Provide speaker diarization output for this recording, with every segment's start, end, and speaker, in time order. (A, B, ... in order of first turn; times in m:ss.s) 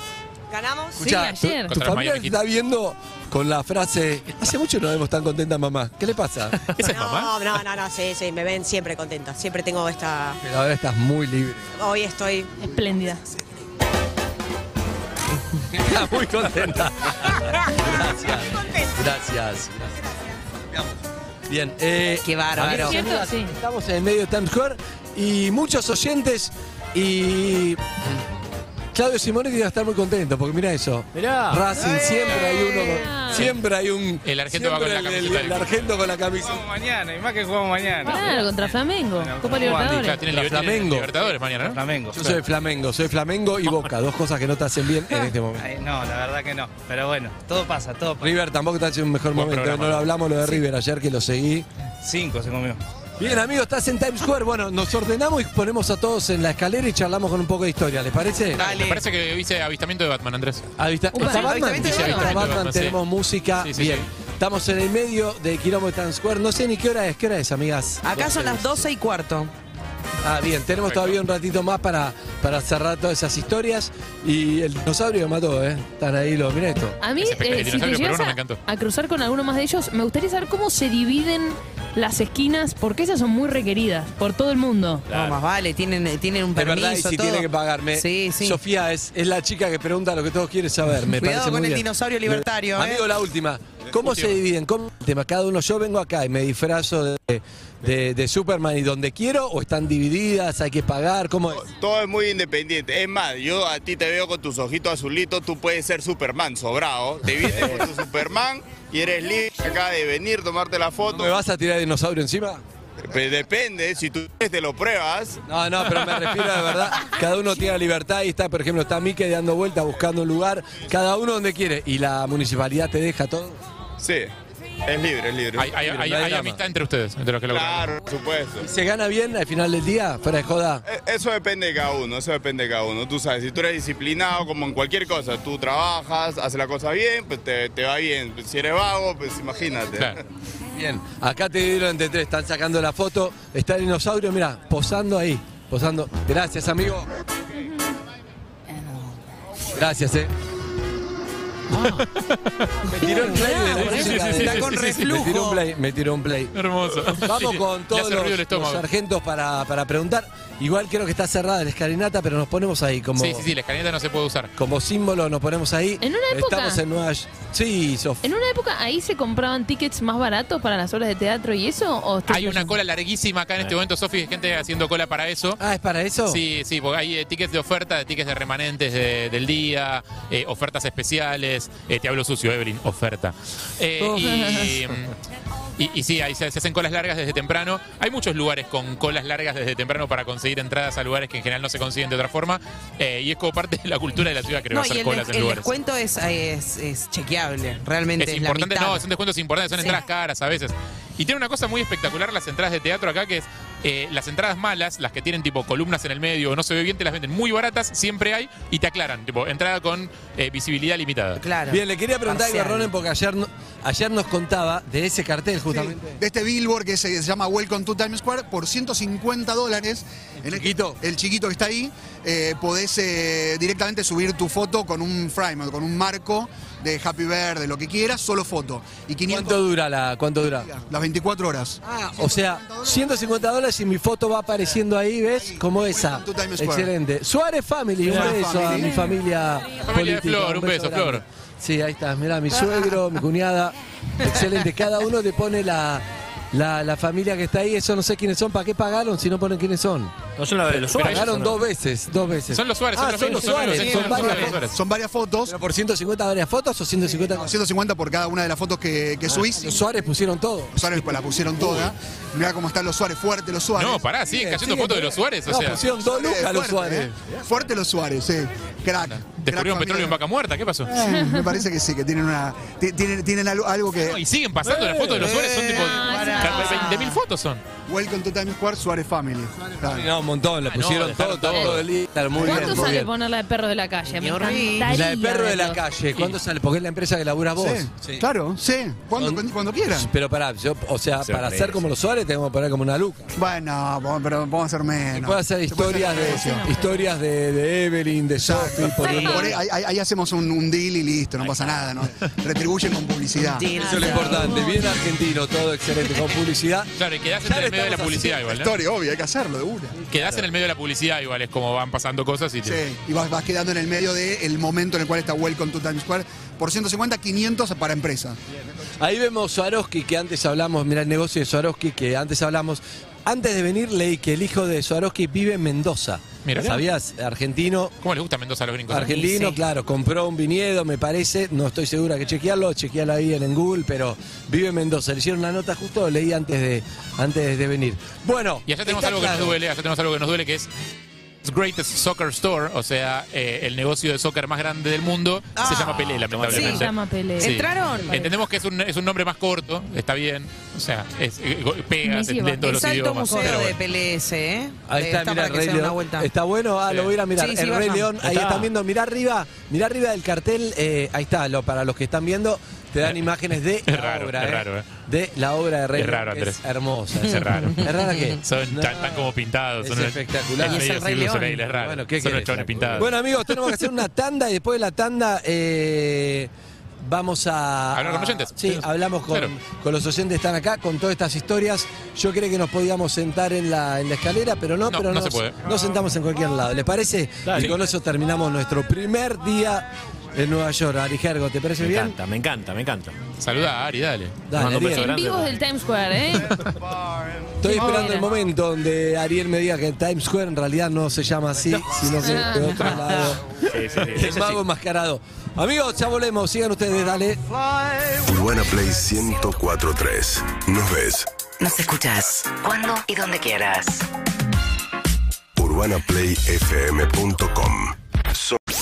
0:00.5-0:01.1 A
0:01.0-0:06.6 B
0:01.0-0:01.7 C
0:01.7-0:02.4 D
0:06.7-0:07.3 D
0:06.8-0:10.4 A
0:10.4-0:11.7 B
0:11.8-0:12.5 A
0:12.6-0:13.2 C
0:15.7-0:20.0 B
0:17.9-0:19.1 A
0:20.7-0:21.0 B
0:21.5-0:28.2 B
0:22.2-0:23.0 E
0:22.6-0:23.5 C
0:28.9-0:36.6 B
0:31.1-0:31.7 F
0:31.7-0:33.0 E
0:32.9-0:33.5 C
0:34.2-0:35.9 D
0:36.4-0:40.0 G
0:38.0-0:40.2 C
0:39.6-0:41.1 B
0:39.8-0:41.8 D
0:41.2-0:42.4 G
0:42.1-0:45.6 B
0:45.6-0:48.3 G
0:48.2-0:51.7 B
0:49.3-0:50.1 D
0:52.0-0:52.8 G
0:53.2-0:58.6 B
0:58.6-0:59.0 E
0:58.6-1:00.7 D
1:00.8-1:08.8 B
1:01.1-1:02.2 C
1:01.2-1:02.5 E
1:01.6-1:03.0 D
1:03.6-1:04.1 D
1:08.0-1:09.5 E
1:10.2-1:17.0 B
1:10.8-1:11.2 D
1:17.0-1:25.0 C
1:17.2-1:18.6 D
1:25.1-1:28.6 E
1:26.5-1:41.6 B
1:31.1-1:33.0 E
1:41.5-1:51.4 H
1:51.1-1:52.6 B
1:53.0-1:55.4 H
1:55.5-2:03.6 B
2:04.0-2:04.3 H
2:04.8-2:05.7 H
2:05.6-2:07.9 D
2:05.8-2:06.6 B
2:07.5-2:08.7 H
2:08.6-2:10.8 B
2:10.8-2:20.2 H
2:20.7-2:27.1 B
2:29.7-2:30.3 B
2:31.8-2:32.8 D
2:32.8-2:36.5 B
2:33.3-2:35.6 E
2:33.3-2:33.7 C
2:33.6-2:35.3 D
2:36.5-2:38.8 D
2:37.1-2:43.5 B
2:43.2-2:44.5 D
2:44.6-2:48.2 B
2:46.0-2:46.8 C
2:48.2-2:52.8 C
2:52.3-2:55.6 D
2:55.6-2:56.4 B
2:56.3-3:05.1 D
3:04.4-3:04.6 C
3:05.8-3:15.7 D
3:14.7-3:19.0 E
3:18.2-3:31.4 D
3:19.7-3:20.0 E
3:31.4-3:32.9 E
3:31.7-3:36.2 B
3:35.7-3:49.7 I
3:40.4-3:41.0 B
3:49.3-3:50.7 B
3:50.5-3:53.0 I
3:51.8-4:14.6 B
3:55.4-3:56.9 I
3:58.0-3:59.0 I
3:59.8-4:01.2 D
4:10.4-4:11.6 F
4:10.9-4:11.3 D
4:12.5-4:14.7 D
4:13.8-4:14.2 E
4:14.0-4:15.6 I
4:15.4-4:17.5 B
4:17.3-4:19.8 I
4:19.4-4:21.9 B
4:20.7-4:24.9 I
4:23.7-4:25.8 D
4:24.4-4:27.1 B
4:25.8-4:30.2 I
4:29.0-4:30.9 D
4:30.8-4:34.2 I
4:31.0-4:31.6 C
4:34.1-4:37.6 D
4:34.9-4:37.2 E
4:35.8-4:37.0 C
4:37.9-4:40.1 I
4:39.8-4:43.1 B
4:40.7-4:41.8 D
4:41.5-4:41.8 C
4:42.4-4:42.9 I
4:42.4-4:45.8 C
4:44.2-4:45.0 E
4:44.8-4:48.2 B
4:47.6-4:50.1 I
4:49.2-4:53.3 B
4:51.2-4:51.8 F
4:53.3-4:56.7 I
4:55.1-4:59.6 B
4:56.1-4:56.9 C
4:58.4-5:03.7 I
4:59.0-4:59.4 E
5:01.4-5:01.9 D
5:03.4-5:04.6 E
5:03.7-5:06.9 B
5:03.9-5:05.0 C
5:07.0-5:08.7 D
5:07.4-5:08.5 B
5:08.5-5:10.0 I
5:10.1-5:12.8 D
5:10.1-5:10.4 B
5:12.6-5:18.4 I
5:19.0-5:27.9 B
5:26.4-5:26.8 D
5:28.0-5:29.5 D
5:28.9-5:39.6 B
5:38.7-5:40.7 D
5:41.4-5:53.8 D
5:45.6-5:48.3 E
5:46.3-5:46.7 B
5:46.6-5:47.6 C
5:52.0-5:52.8 C
5:52.6-5:56.3 E
5:54.9-6:16.5 B
5:57.3-5:58.2 E
5:58.2-5:58.7 F
6:03.8-6:04.8 D
6:06.0-6:06.6 D
6:07.3-6:07.9 D
6:07.4-6:08.4 E
6:08.4-6:13.1 D
6:10.6-6:11.6 E
6:12.6-6:13.1 F
6:17.0-6:32.2 B
6:17.9-6:19.5 D
6:24.9-6:25.6 D
6:27.4-6:27.8 F
6:31.8-6:33.2 F
6:33.4-6:34.7 D
6:34.5-6:35.1 B
6:34.6-6:35.5 F
6:34.8-6:36.6 C
6:37.6-6:47.4 B
6:37.6-6:38.3 C
6:42.2-6:42.7 C
6:42.8-6:43.4 E
6:43.7-6:44.6 D
6:48.1-6:51.3 J
6:51.6-6:54.0 K
6:55.6-6:58.6 J